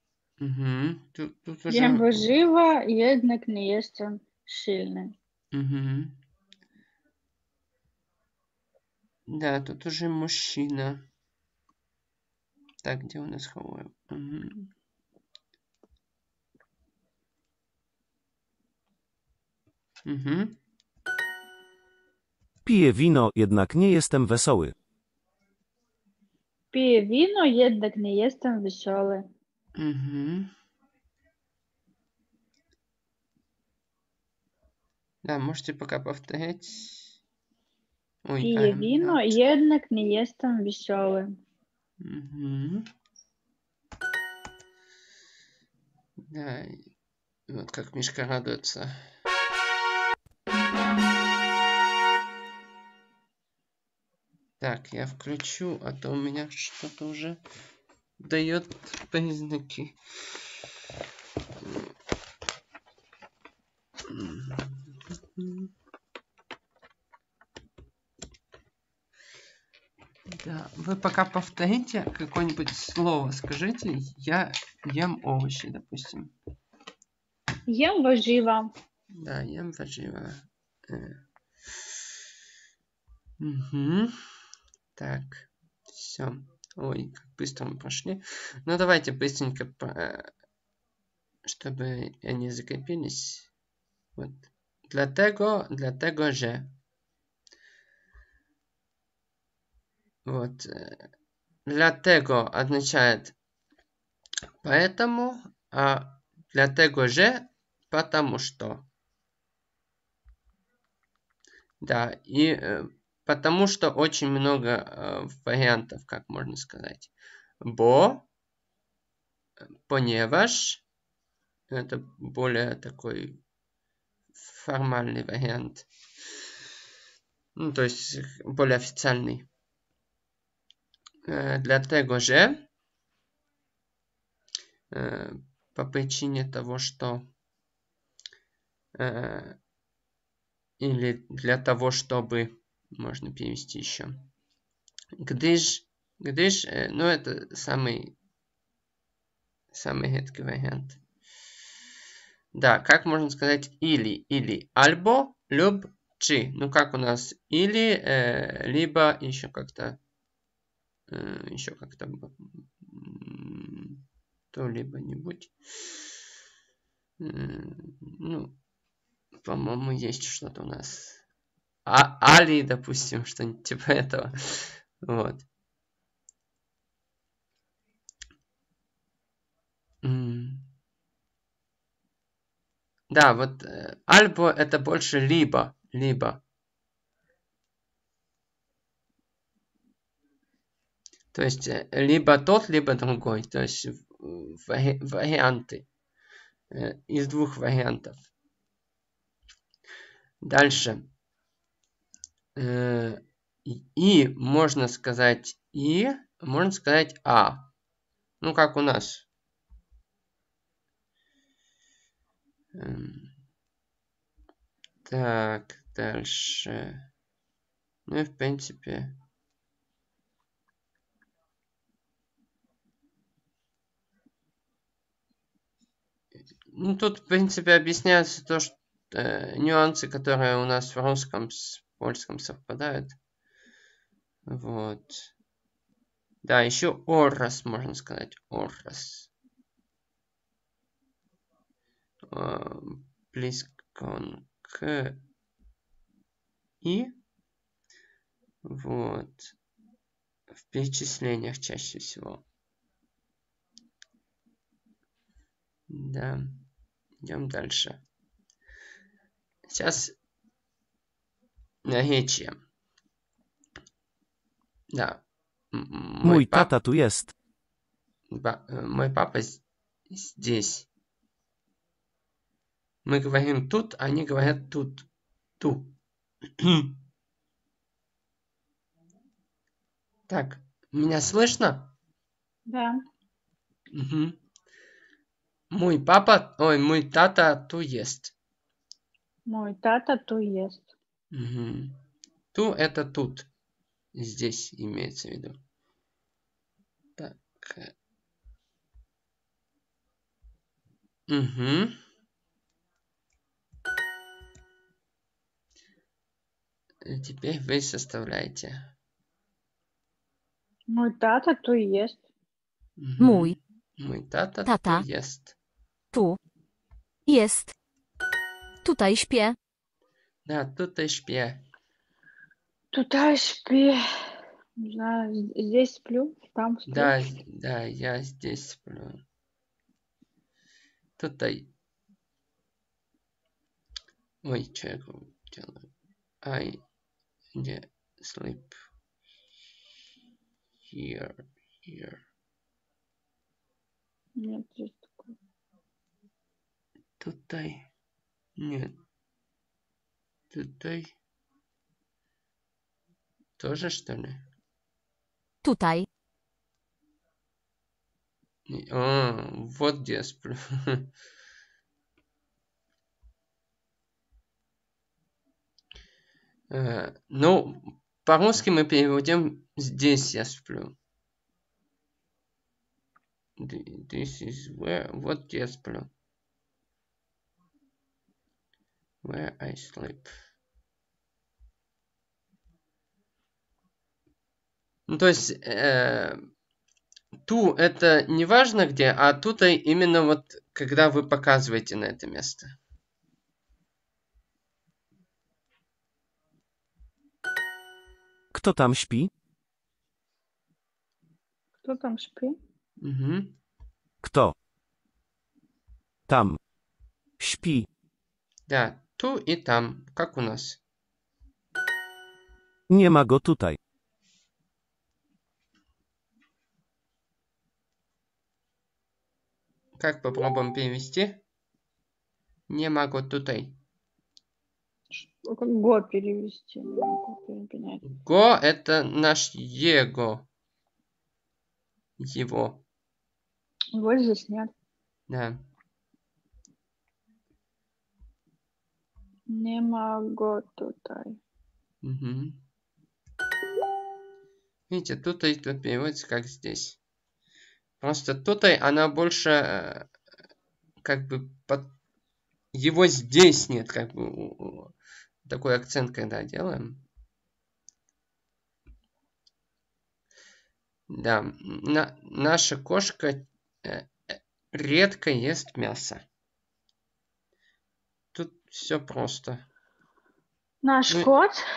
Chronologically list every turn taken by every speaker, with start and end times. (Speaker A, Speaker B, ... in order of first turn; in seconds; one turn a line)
Speaker A: 0.4-2.3
Speaker B: 1.7-5.1
Speaker A: 5.5-6.2
Speaker A: 9.3-11.1
Speaker A: 12.8-14.7
Speaker A: 20.1-20.6
Speaker C: 22.6-24.7
Speaker B: 26.7-29.3
Speaker A: 29.8-30.5
Speaker A: 35.2-37.1
Speaker A: 38.2-39.4
Speaker B: 38.4-41.4
Speaker A: 42.0-42.9
Speaker A: 46.3-46.8
Speaker A: 47.5-49.0
Speaker A: 54.6-57.4
Speaker A: 58.2-60.0
Speaker A: 61.6-61.9
Speaker A: 64.1-64.8
Speaker A: 65.3-65.7
Speaker A: 70.3-76.3
Speaker B: 77.7-78.7
Speaker A: 79.1-81.2
Speaker A: 83.4-84.1
Speaker A: 85.0-90.3
Speaker A: 91.5-93.5
Speaker A: 94.2-96.8
Speaker A: 100.2-101.1
Speaker A: 101.7-103.3
Speaker A: 104.6-108.9
Speaker A: 111.8-118.3
Speaker A: 119.9-120.8
Speaker A: 121.7-123.4
Speaker A: 124.3-125.9
Speaker A: 127.6-129.5
Speaker A: 131.3-132.7
Speaker A: 134.9-137.3
Speaker A: 138.9-139.6
Speaker A: 140.8-144.3
Speaker A: 145.2-148.2
Speaker A: 149.7-151.0
Speaker A: 152.5-160.0
Speaker A: 161.1-165.5
Speaker A: 167.2-168.6
Speaker A: 169.4-171.2
Speaker A: 171.9-175.5
Speaker A: 180.0-180.7
Speaker A: 183.1-186.4
Speaker A: 191.3-195.9
Speaker A: 196.7-198.2
Speaker A: 200.4-201.1
Speaker A: 202.6-207.7
Speaker A: 208.4-209.3
Speaker A: 212.7-213.3
Speaker A: 215.1-217.1
Speaker A: 218.1-219.2
Speaker A: 226.7-233.2
Speaker A: 234.5-235.3
Speaker A: 236.4-239.3
Speaker A: 242.3-245.2
Speaker A: 246.8-247.2
Speaker A: 248.6-249.5
Speaker A: 250.6-252.4
Speaker A: 255.9-256.6
Speaker A: 257.2-258.0
Speaker A: 259.7-260.2
Speaker A: 261.9-262.6
Speaker A: 264.9-266.7
Speaker C: 266.2-267.3
Speaker A: 268.3-270.9
Speaker A: 273.1-275.1
Speaker A: 275.6-276.0
Speaker A: 276.6-277.0
Speaker A: 280.3-281.9
Speaker B: 282.7-283.0
Speaker A: 283.9-284.4
Speaker A: 285.7-288.3
Speaker B: 289.5-290.9
Speaker A: 291.3-292.0
Speaker A: 292.5-293.5
Speaker A: 294.1-295.6
Speaker A: 297.2-297.9
Speaker A: 301.3-302.0
Speaker A: 307.0-308.9
Speaker B: 310.9-312.2
Speaker A: 313.0-315.6
Speaker D: 313.2-313.6
Speaker D: 314.7-315.1
Speaker D: 317.3-317.7
Speaker D: 318.8-319.6
Speaker A: 320.4-321.6
Speaker B: 322.9-324.0
Speaker B: 324.8-327.3
Speaker A: 326.9-329.2
Speaker A: 331.2-331.7
Speaker A: 334.4-335.9
Speaker A: 336.4-336.8
Speaker A: 337.5-338.8
Speaker A: 340.9-342.2
Speaker B: 344.4-345.3
Speaker A: 347.2-347.9
Speaker A: 348.6-349.0
Speaker A: 350.5-351.1
Speaker A: 353.6-354.5
Speaker D: 355.6-356.1
Speaker A: 358.7-361.1
Speaker A: 366.7-370.9
Speaker A: 373.6-376.1
Speaker A: 379.2-380.3
Speaker A: 385.1-386.4
Speaker A: 387.5-392.8
Speaker C: 398.5-399.3
Speaker B: 401.8-402.6
Speaker A: 403.0-403.6
Speaker C: 404.2-404.5
Speaker C: 406.3-406.6
Speaker C: 407.4-407.9
Speaker A: 408.7-410.8
Speaker C: 412.9-413.8
Speaker A: 420.0-421.4
Speaker A: 422.7-423.8
Speaker B: 425.2-428.0
Speaker A: 428.0-430.5
Speaker A: 432.2-432.8
Speaker B: 433.9-434.7
Speaker A: 435.3-435.6
Speaker B: 439.5-441.4
Speaker A: 442.0-442.6
Speaker A: 444.9-447.0
Speaker A: 448.0-450.1
Speaker A: 451.0-451.9
Speaker A: 452.7-454.9
Speaker A: 455.4-457.0
Speaker A: 461.1-466.2
Speaker A: 468.3-469.6
Speaker B: 470.8-471.6